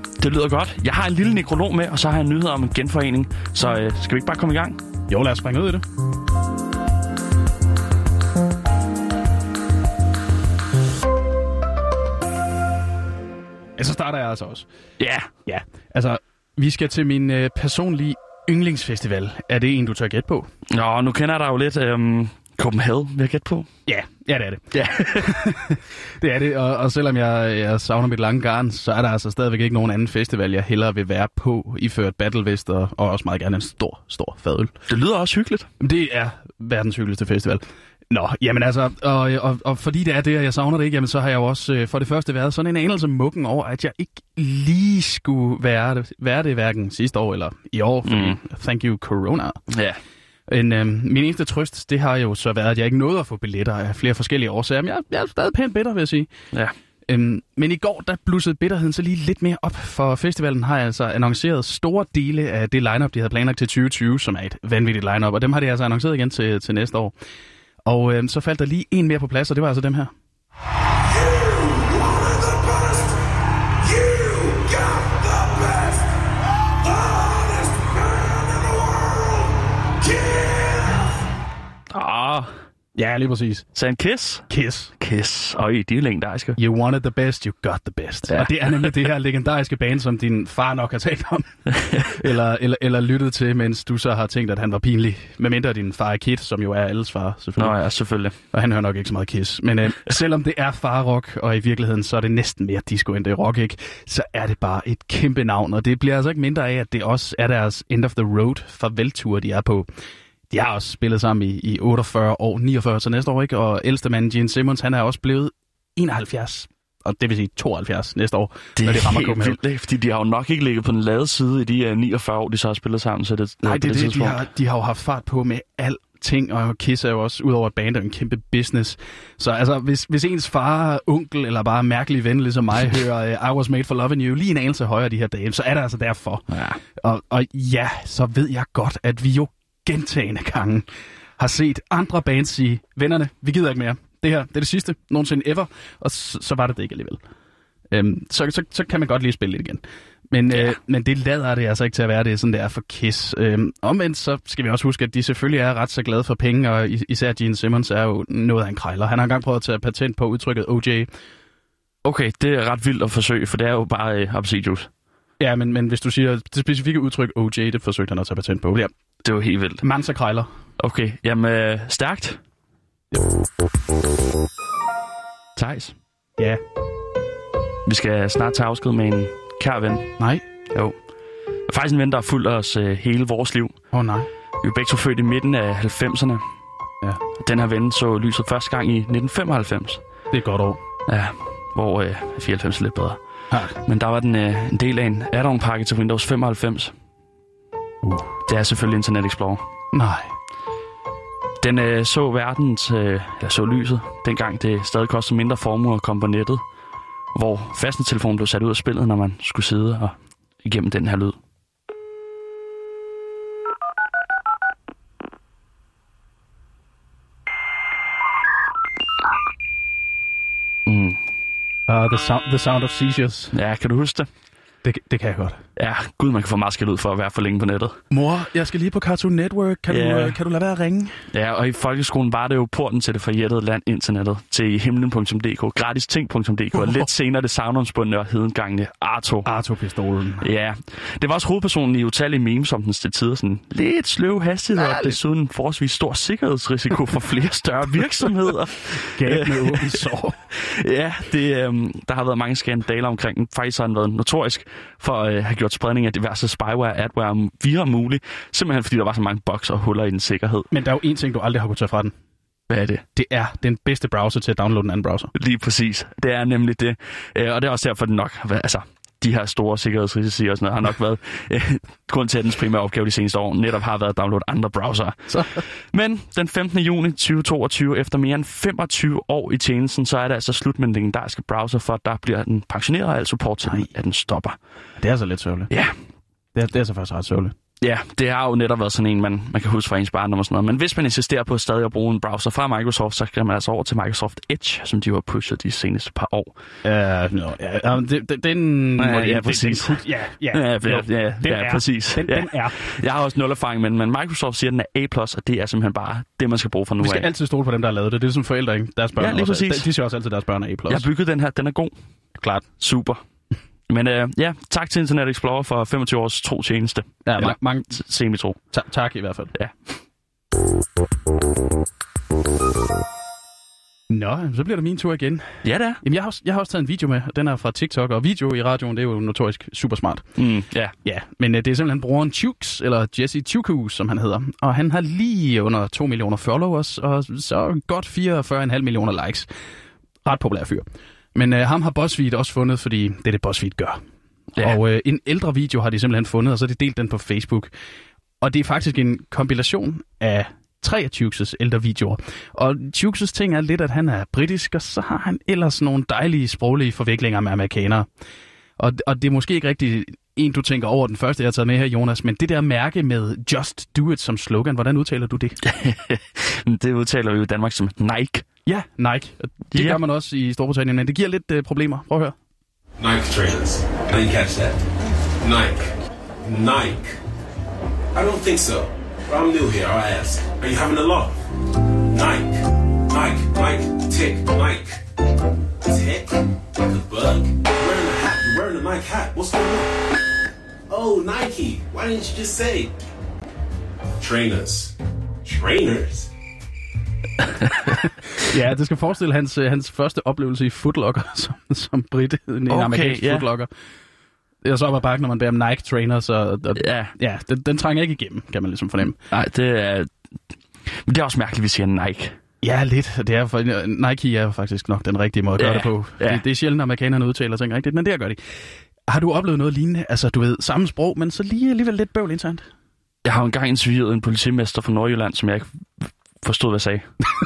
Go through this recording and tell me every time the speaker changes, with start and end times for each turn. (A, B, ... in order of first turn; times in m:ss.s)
0:00.2-0:04.8 A
0:05.1-0:05.8 B
0:13.8-0:14.7 B
0:15.0-0:15.3 A
0:15.4-0:20.4 B
0:20.7-0:23.7 A
0:23.9-0:34.7 B
0:24.7-0:25.4 A
0:34.9-0:35.7 A
0:35.8-0:49.6 B
0:48.0-0:48.4 A
0:49.7-0:50.0 A
0:50.5-0:56.3 B
0:57.1-1:07.1 B
1:07.8-1:10.1 B
1:11.1-1:13.1 C
1:13.8-1:16.1 C
1:16.8-1:21.1 C
1:21.9-1:22.5 A
1:22.9-1:23.6 B
1:23.7-1:24.4 A
1:24.5-1:24.9 B
1:25.0-1:26.6 A
1:26.6-1:37.7 B
1:28.3-1:28.9 A
1:31.8-1:32.2 A
1:37.6-1:38.4 A
1:38.5-1:49.9 B
1:50.5-1:59.6 B
1:58.8-2:04.4 A
2:03.6-2:20.8 B
2:16.5-2:16.8 A
2:21.4-2:27.2 B
2:27.9-2:41.1 B
2:42.0-2:44.9 A
2:45.4-2:48.9 B
2:49.2-2:49.8 A
2:49.8-2:50.5 B
2:50.8-2:52.4 A
2:55.6-2:55.9 A
2:57.8-3:00.1 A
3:00.2-3:00.4 B
3:01.7-3:03.7 A
3:03.9-3:04.3 B
3:04.6-3:06.4 A
3:07.4-3:10.0 A
3:10.3-3:10.8 B
3:11.1-3:13.2 A
3:13.5-3:13.8 B
3:13.8-3:16.9 A
3:18.0-3:18.3 B
3:18.5-3:19.6 A
3:19.9-3:20.3 B
3:21.6-3:26.6 A
3:27.3-3:31.3 A
3:40.9-3:41.2 A
3:41.9-3:43.5 B
3:43.5-3:44.3 A
3:44.8-3:45.6 B
3:45.8-3:48.0 A
3:48.1-3:51.1 B
3:49.9-3:50.4 A
3:51.3-3:59.5 A
3:56.7-3:57.0 B
3:59.4-4:00.5 B
4:00.4-4:20.7 A
4:04.8-4:05.2 B
4:09.1-4:10.3 B
4:20.7-4:22.1 B
4:22.7-4:23.0 A
4:23.1-4:25.3 B
4:25.3-4:44.6 A
4:35.3-4:35.6 B
4:45.0-4:45.7 B
4:46.5-4:47.6 B
4:47.8-4:56.5 A
4:56.8-5:02.8 B
4:59.0-5:07.3 A
5:07.0-5:11.0 B
5:09.2-5:09.9 A
5:10.9-5:11.9 A
5:12.3-5:12.6 B
5:12.8-5:13.2 A
5:13.9-5:18.6 A
5:17.2-5:18.0 B
5:18.7-5:19.5 B
5:24.1-5:25.4 B
5:25.6-5:26.0 A
5:26.0-5:30.2 B
5:30.4-5:30.9 A
5:31.0-5:39.5 B
5:40.2-5:40.8 B
5:41.3-5:44.0 B
5:44.6-5:47.7 B
5:48.4-5:58.0 B
5:58.8-6:05.6 B
6:05.6-6:08.4 A
6:08.6-6:12.3 B
6:09.7-6:10.0 A
6:13.0-6:14.8 C
6:15.4-6:17.2 C
6:18.1-6:21.4 C
6:22.1-6:25.0 C
6:25.8-6:30.0 C
6:30.9-6:32.9 C
6:34.2-6:36.3 C
6:38.4-6:43.7 B
6:42.7-6:43.5 A
6:44.6-6:49.2 B
6:46.8-6:47.1 A
6:49.3-6:50.1 A
6:51.1-6:52.4 A
6:52.6-6:58.4 B
6:55.6-6:56.4 A
6:59.1-7:02.6 B
7:03.2-7:05.6 A
7:06.4-7:07.0 A